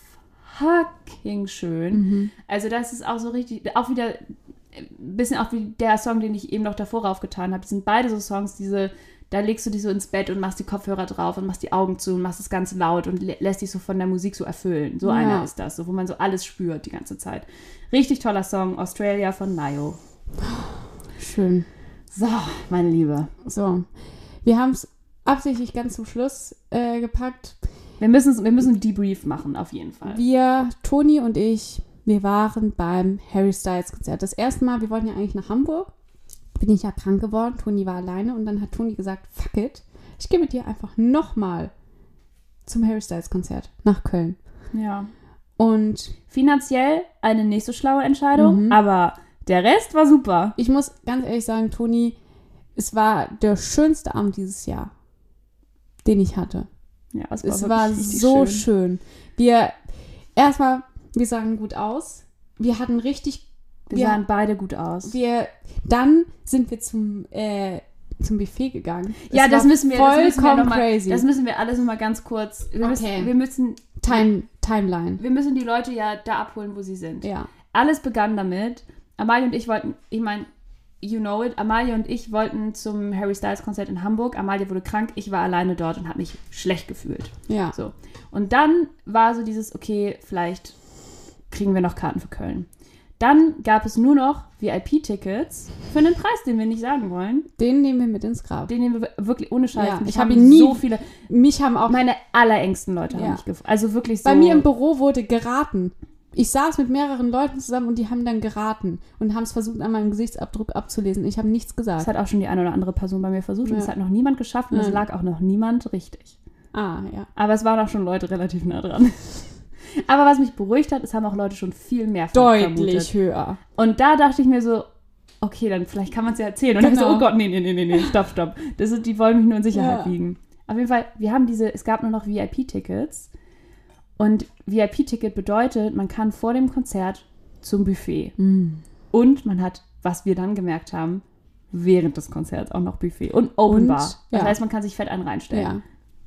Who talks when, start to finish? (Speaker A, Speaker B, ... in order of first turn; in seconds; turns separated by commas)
Speaker A: 0.4-4.2, Speaker B: 1.9-2.3, Speaker A: 4.7-20.0, Speaker B: 15.0-15.5, Speaker B: 20.4-21.7, Speaker A: 22.1-23.3, Speaker B: 23.4-23.9, Speaker B: 24.4-27.6, Speaker A: 28.0-30.2, Speaker B: 30.0-35.9, Speaker B: 36.5-41.7, Speaker B: 42.6-44.4, Speaker A: 44.7-45.1, Speaker B: 45.6-46.1, Speaker A: 46.3-50.5, Speaker B: 48.4-48.8, Speaker B: 50.6-52.2, Speaker B: 52.8-54.9, Speaker B: 56.0-56.7, Speaker A: 57.1-58.6, Speaker B: 57.4-59.8, Speaker B: 60.4-64.2, Speaker A: 63.9-65.1, Speaker B: 65.0-71.2, Speaker A: 69.3-74.2, Speaker B: 72.8-73.3, Speaker B: 74.0-75.2, Speaker A: 75.2-80.5, Speaker B: 77.2-77.5, Speaker A: 81.0-90.8, Speaker B: 87.5-87.7, Speaker A: 91.5-92.7, Speaker A: 93.2-97.5, Speaker B: 97.6-98.7, Speaker A: 98.7-101.0, Speaker B: 99.7-102.0, Speaker A: 101.8-104.7, Speaker B: 103.1-103.4, Speaker B: 104.2-112.1, Speaker A: 112.0-116.3, Speaker B: 113.6-113.9, Speaker B: 114.7-115.0, Speaker B: 116.7-117.3, Speaker A: 117.3-119.5, Speaker A: 120.0-123.1, Speaker B: 122.3-123.6, Speaker A: 123.8-124.8, Speaker A: 125.4-133.3, Speaker B: 126.8-127.3, Speaker B: 129.7-130.1, Speaker A: 134.2-138.3, Speaker B: 138.4-138.8, Speaker A: 139.1-145.7, Speaker B: 143.6-144.6, Speaker B: 145.5-145.8